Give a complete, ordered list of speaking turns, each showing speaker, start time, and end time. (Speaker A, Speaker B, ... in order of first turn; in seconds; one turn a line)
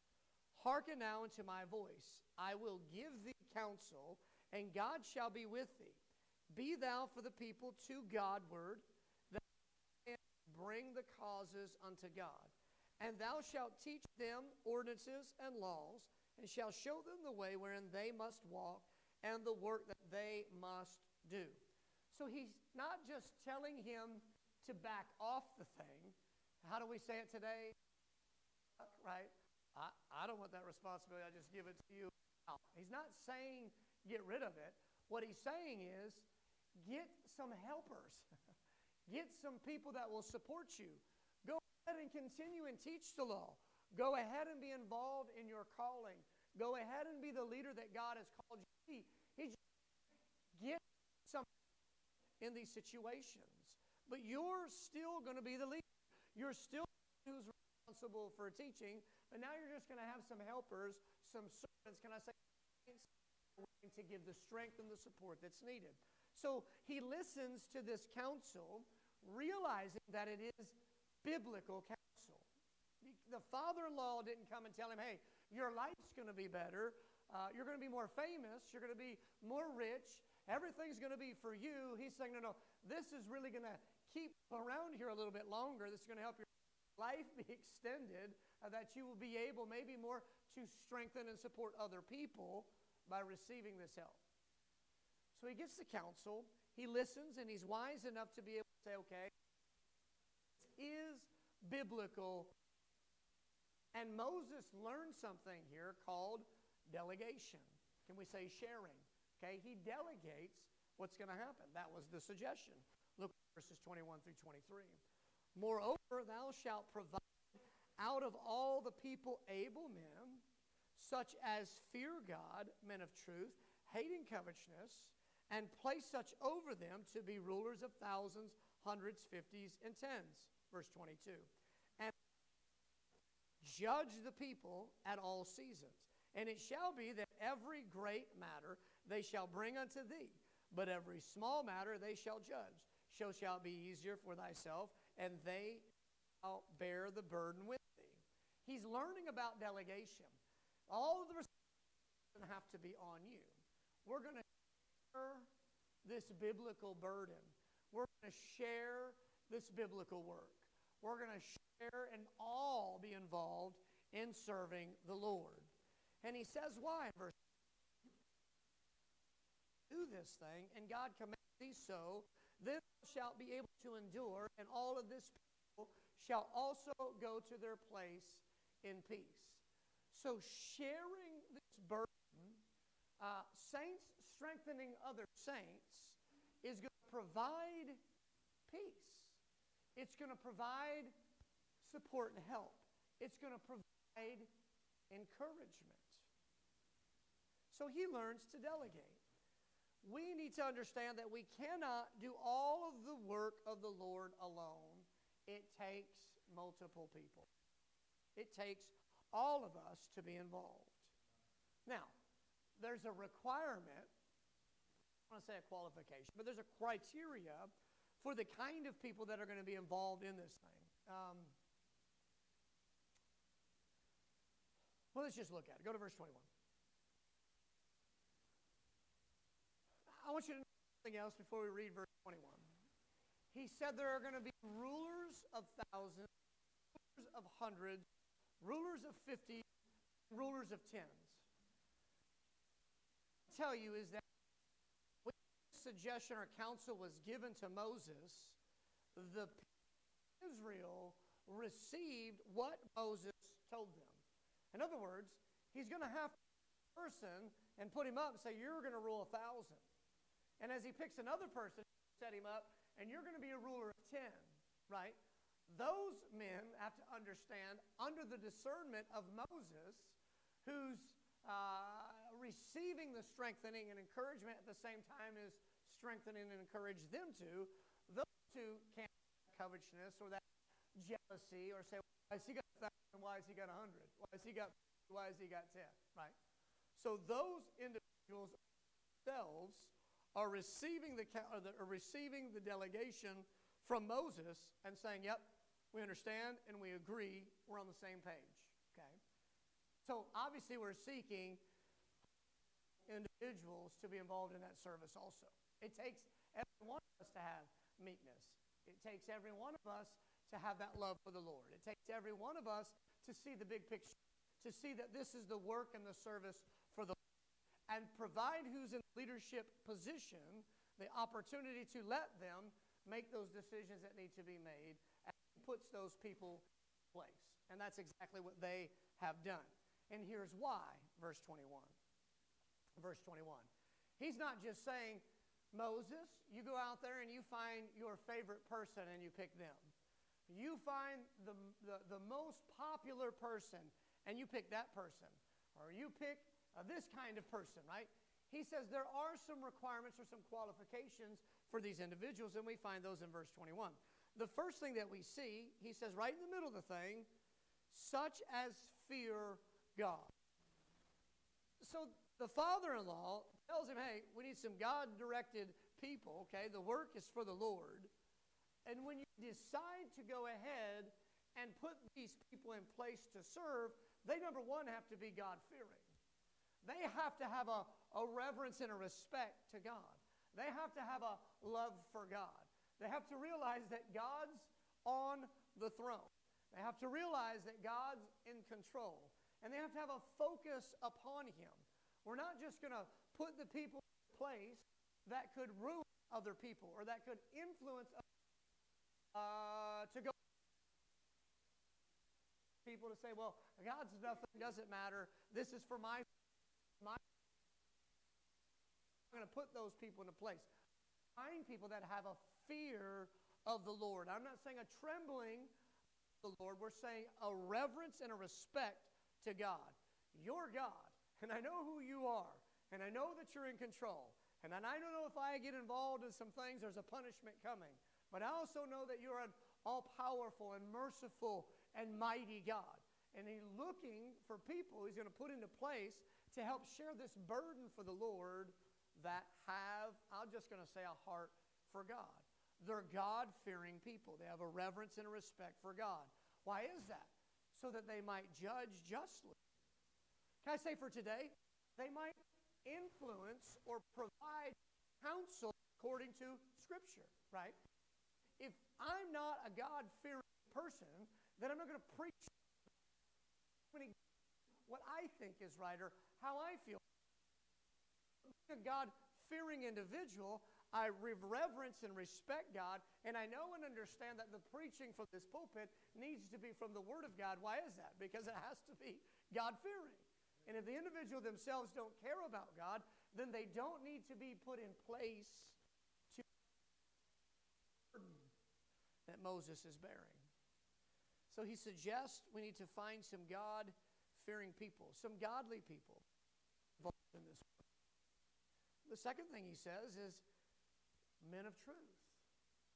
Speaker A: 0.5-9.4
Speaker A: 10.0-21.6
Speaker A: 22.1-27.8
Speaker A: 28.8-38.3
Speaker A: 39.1-49.6
Speaker A: 50.5-51.5
Speaker A: 52.4-72.5
Speaker A: 73.0-94.2
Speaker A: 95.3-99.3
Speaker A: 100.6-102.5
Speaker A: 103.9-115.0
Speaker A: 115.5-120.4
Speaker A: 121.0-132.1
Speaker A: 133.6-150.4
Speaker A: 150.9-151.5
Speaker A: 152.3-154.4
Speaker A: 155.1-155.5
Speaker A: 156.0-165.7
Speaker A: 166.2-167.4
Speaker A: 169.9-182.6
Speaker A: 183.2-188.0
Speaker A: 188.7-189.4
Speaker A: 189.9-191.1
Speaker A: 191.8-194.5
Speaker A: 195.1-196.3
Speaker A: 197.7-199.2
Speaker A: 200.0-207.5
Speaker A: 208.3-211.1
Speaker A: 211.8-212.1
Speaker A: 212.8-214.1
Speaker A: 215.3-221.5
Speaker A: 225.1-226.5
Speaker A: 230.1-232.7
Speaker A: 233.5-236.3
Speaker A: 236.9-238.0
Speaker A: 238.6-239.7
Speaker A: 240.3-241.5
Speaker A: 243.5-244.2
Speaker A: 245.2-248.6
Speaker A: 249.2-249.7
Speaker A: 250.4-256.4
Speaker A: 256.9-259.8
Speaker A: 260.6-280.4
Speaker A: 280.9-286.3
Speaker A: 286.9-288.6
Speaker A: 289.2-299.2
Speaker A: 300.0-301.6
Speaker A: 303.0-317.2
Speaker A: 317.9-331.9
Speaker A: 333.0-333.7
Speaker A: 334.2-339.9
Speaker A: 340.5-357.3
Speaker A: 357.9-360.3
Speaker A: 361.8-368.1
Speaker A: 368.9-376.1
Speaker A: 376.8-398.2
Speaker A: 399.3-400.3
Speaker A: 402.8-406.3
Speaker A: 409.3-410.7
Speaker A: 411.4-415.7
Speaker A: 416.4-449.6
Speaker A: 450.6-457.8
Speaker A: 458.6-462.6
Speaker A: 463.9-464.2
Speaker A: 464.9-467.0
Speaker A: 468.5-485.8
Speaker A: 488.1-488.5
Speaker A: 489.3-490.5
Speaker A: 491.5-496.2
Speaker A: 497.0-497.8
Speaker A: 499.1-500.4
Speaker A: 501.4-502.4